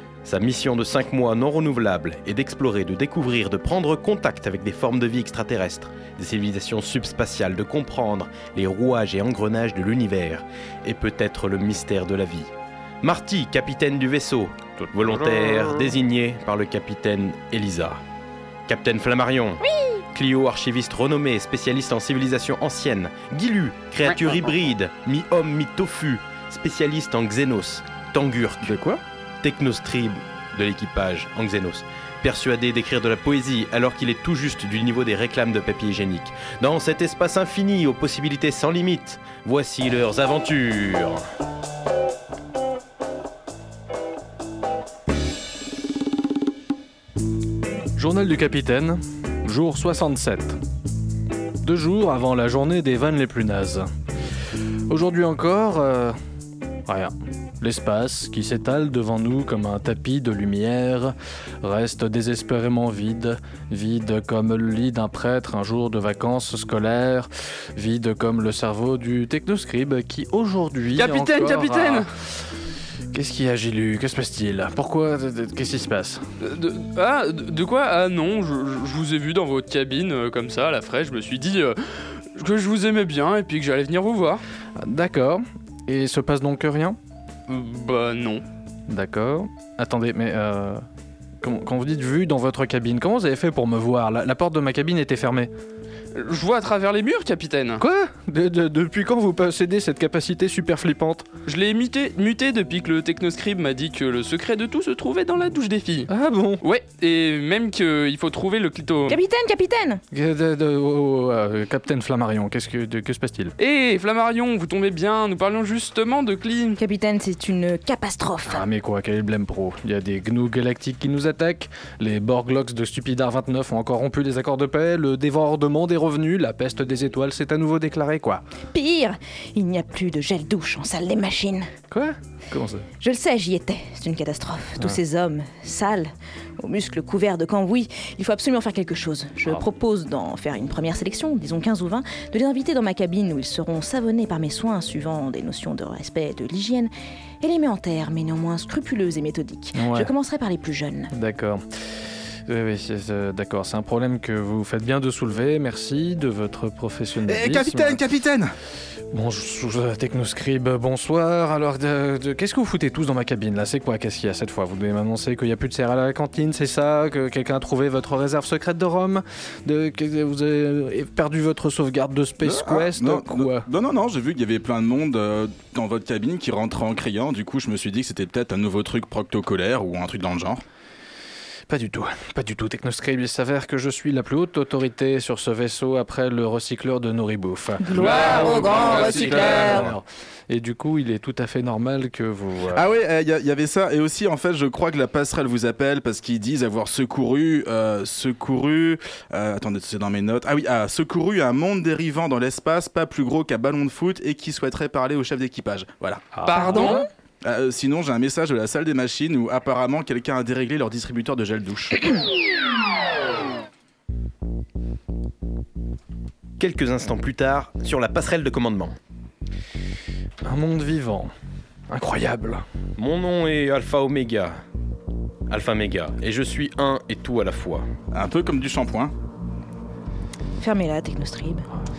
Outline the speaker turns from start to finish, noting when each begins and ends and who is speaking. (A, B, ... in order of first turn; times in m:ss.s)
0:00.2-0:12.5 A
0:13.0-0:18.0 A
0:18.7-0:19.6 A
0:20.1-0:28.7 A
0:28.6-0:29.0 B
0:29.4-0:41.2 A
0:48.0-0:50.6 C
0:51.6-0:53.9 C
0:54.9-0:56.2 C
0:56.9-1:12.1 C
1:11.0-1:12.1 D
1:13.1-1:16.2 C
1:16.4-1:24.4 D
1:24.8-1:27.0 C
1:27.5-1:28.4 D
1:28.9-1:30.8 C
1:31.4-1:35.5 C
1:36.1-1:37.8 D
1:37.8-1:41.3 C
1:41.5-1:46.1 D
1:46.1-1:46.6 C
1:46.6-1:49.2 D
1:49.1-1:50.0 E
1:50.1-1:53.6 C
1:53.6-1:56.8 D
1:56.8-1:58.7 E
1:58.5-2:08.4 C
2:08.7-2:11.7 E
2:11.9-2:12.9 C
2:13.0-2:31.1 E
2:29.8-2:30.1 C
2:31.1-2:31.6 C
2:32.5-2:38.0 C
2:37.3-2:38.5 B
2:39.1-2:53.6 C
2:52.4-3:00.6 B
3:01.7-3:08.1 C
3:07.8-3:09.9 E
3:08.0-3:09.8 D
3:08.9-3:12.9 C
3:12.7-3:26.2 B
3:26.4-3:26.9 C
3:26.4-3:27.1 D
3:27.4-3:32.2 B
3:36.6-3:39.0 A
3:40.4-3:41.3 C
3:41.9-3:42.6 C
3:43.0-3:44.6 A
3:45.5-3:47.9 A
3:48.1-3:49.1 B
3:50.6-3:51.7 E